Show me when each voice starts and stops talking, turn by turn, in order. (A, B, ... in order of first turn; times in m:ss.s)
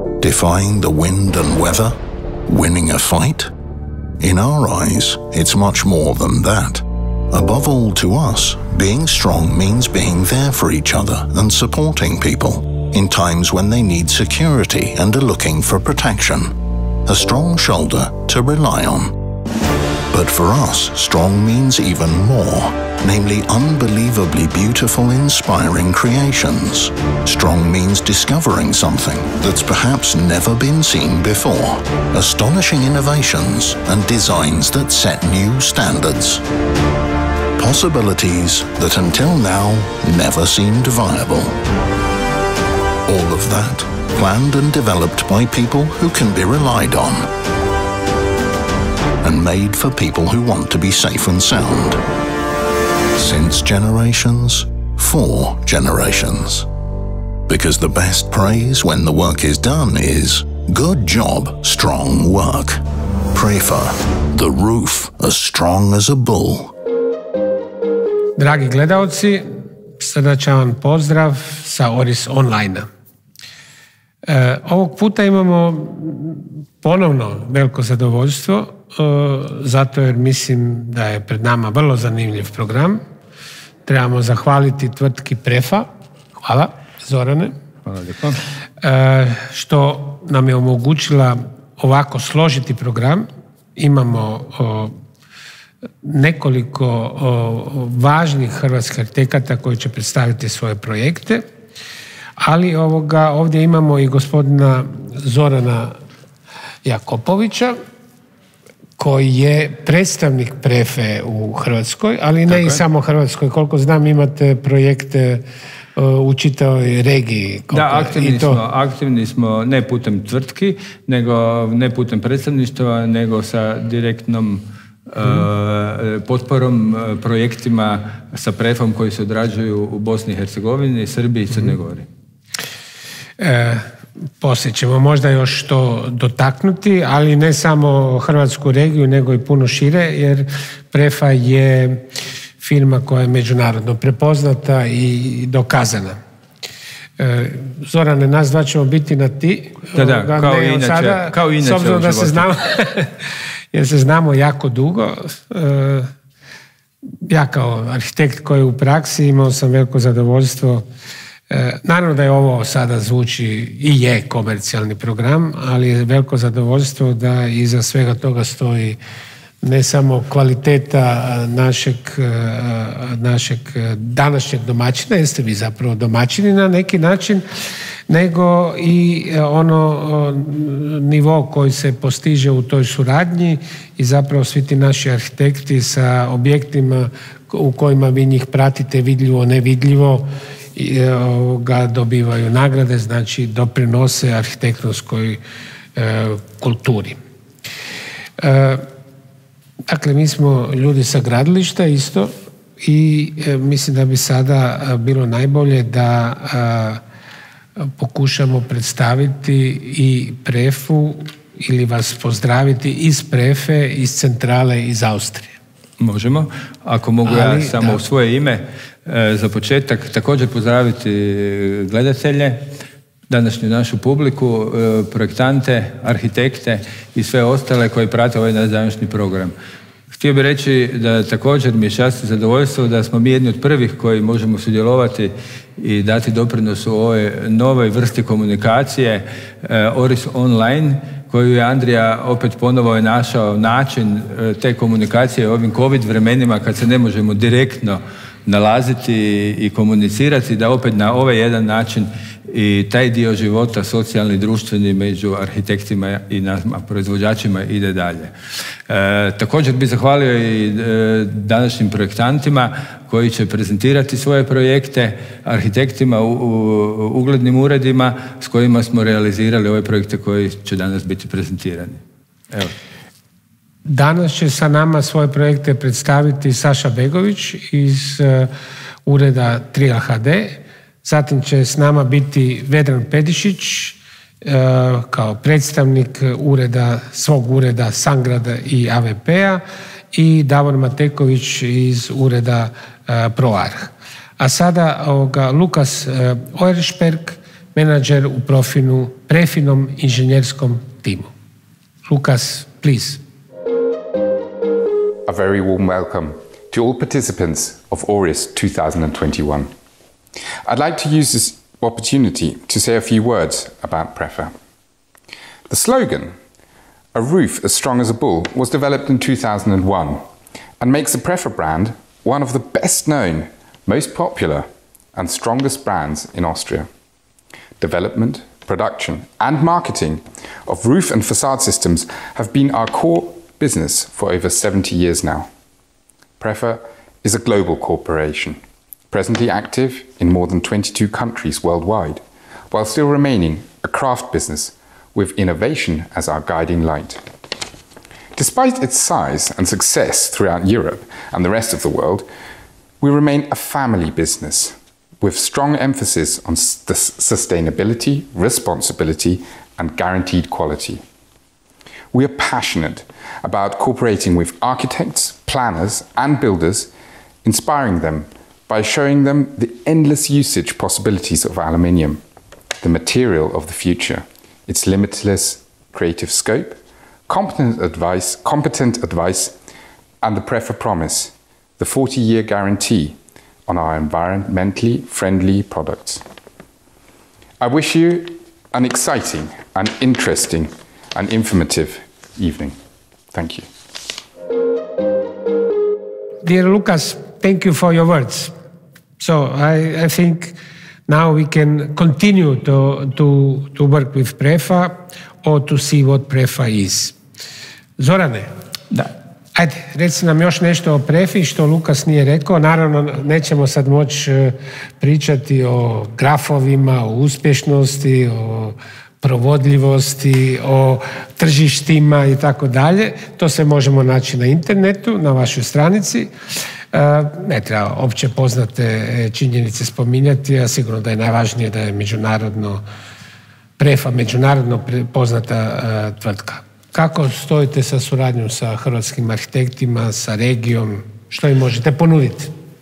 0:00.2-0:03.5 A
0:04.2-0:19.2 A
0:20.1-0:36.4 A
0:37.6-0:41.6 A
0:43.0-0:47.3 A
0:49.2-0:52.0 A
0:53.2-0:56.7 A
0:57.5-1:06.7 A
1:08.4-1:12.9 B
1:14.3-1:23.0 B
1:23.8-1:25.9 B
1:26.4-1:27.5 B
1:27.8-1:28.4 C
1:28.8-1:35.0 B
1:36.0-1:41.4 B
1:42.4-1:46.0 B
1:46.8-1:47.8 B
1:49.0-1:55.4 B
1:52.5-1:52.8 C
1:56.0-1:58.6 B
1:57.7-2:12.1 C
2:13.4-2:13.9 B
2:14.4-2:22.0 B
2:22.6-2:26.2 B
2:27.2-2:33.1 B
2:29.9-2:32.5 C
2:33.7-2:36.1 B
2:37.2-2:40.8 B
2:41.5-2:49.0 B
2:49.6-2:57.4 B
2:58.1-3:15.4 B
3:16.0-3:17.2 B
3:18.4-3:18.8 B
3:19.9-3:27.0 B
3:27.8-3:35.6 B
3:36.0-3:42.7 C
3:37.2-3:38.0 B
3:43.3-3:49.5 C
3:50.1-4:18.3 C
4:18.9-4:32.7 C
4:33.8-4:38.5 B
4:39.0-5:01.3 B
5:02.0-5:03.2 B
5:05.2-5:09.7 D
5:10.6-5:14.6 D
5:15.7-5:16.4 D
5:17.1-5:20.2 D
5:20.8-5:26.9 D
5:27.8-5:35.5 D
5:36.4-5:38.6 D
5:39.1-5:47.2 D
5:48.3-5:52.3 D
5:53.0-6:01.0 D
6:02.1-6:06.9 D
6:07.4-6:12.2 D
6:12.8-6:19.6 D
6:20.2-6:26.2 D
6:27.6-6:32.8 D
6:33.3-6:33.7 D
6:36.4-6:38.5 B
6:39.2-6:40.6 B
6:41.1-6:47.2 B
6:48.0-6:48.5 B
6:49.6-7:06.3 B
7:06.9-7:12.8 B
7:13.8-7:22.5 B